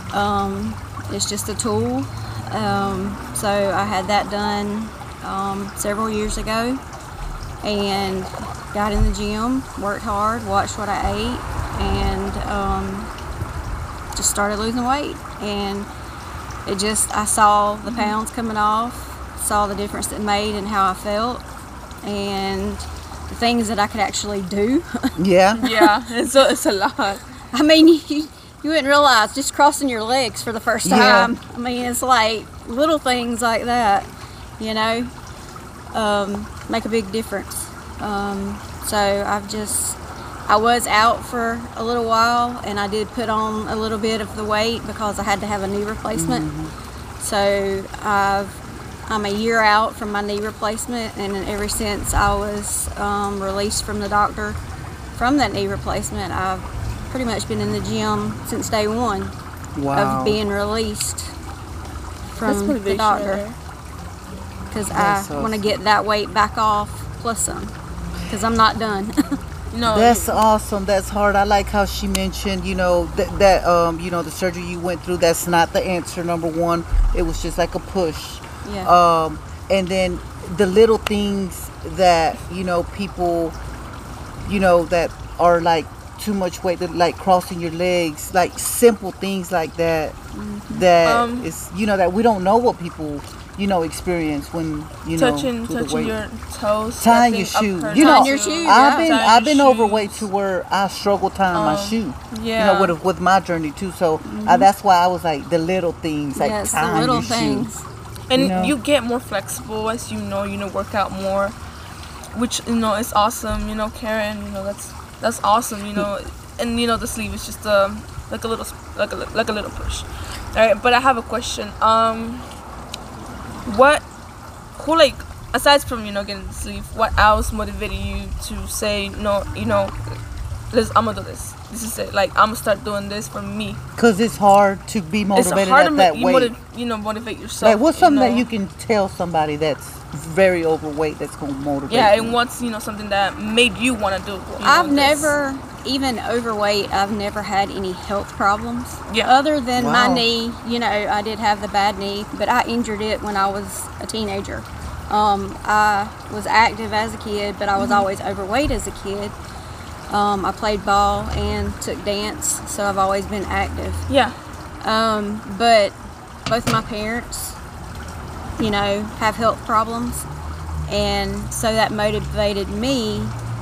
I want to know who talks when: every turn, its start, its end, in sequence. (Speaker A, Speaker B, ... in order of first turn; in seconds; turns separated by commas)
Speaker A: 0.1-6.8, Speaker A: 7.6-13.1, Speaker A: 14.1-15.9, Speaker A: 16.6-21.4, Speaker B: 17.9-18.2, Speaker A: 22.0-25.9, Speaker C: 25.2-25.6, Speaker B: 25.6-27.2, Speaker A: 27.5-34.1, Speaker C: 30.8-31.3, Speaker A: 34.6-35.1, Speaker A: 35.9-46.5, Speaker C: 46.1-46.7, Speaker A: 47.2-54.6, Speaker A: 55.1-59.3, Speaker C: 59.8-60.4, Speaker A: 59.9-61.3, Speaker A: 62.3-63.4, Speaker B: 62.4-63.6, Speaker A: 64.7-67.7, Speaker C: 64.9-65.6, Speaker A: 68.3-69.4, Speaker B: 69.7-70.4, Speaker C: 69.8-83.5, Speaker A: 78.6-78.9, Speaker C: 84.4-90.2, Speaker A: 90.3-90.9, Speaker C: 90.7-96.2, Speaker B: 91.0-91.5, Speaker B: 95.2-100.2, Speaker C: 97.0-107.7, Speaker A: 98.0-99.1, Speaker B: 101.5-102.9, Speaker A: 104.2-104.7, Speaker A: 106.3-107.8, Speaker B: 108.3-111.5, Speaker C: 108.3-108.7, Speaker B: 112.3-122.5, Speaker B: 123.6-124.0, Speaker B: 124.8-129.9, Speaker B: 130.7-133.8, Speaker C: 134.0-136.5, Speaker B: 135.3-138.5, Speaker C: 137.6-142.4, Speaker B: 141.9-145.3, Speaker A: 144.6-159.3, Speaker C: 149.8-150.2, Speaker B: 157.8-158.1, Speaker A: 160.1-164.1, Speaker B: 164.1-164.3, Speaker A: 164.8-165.9, Speaker A: 166.5-167.6, Speaker A: 168.6-170.3, Speaker A: 170.9-173.3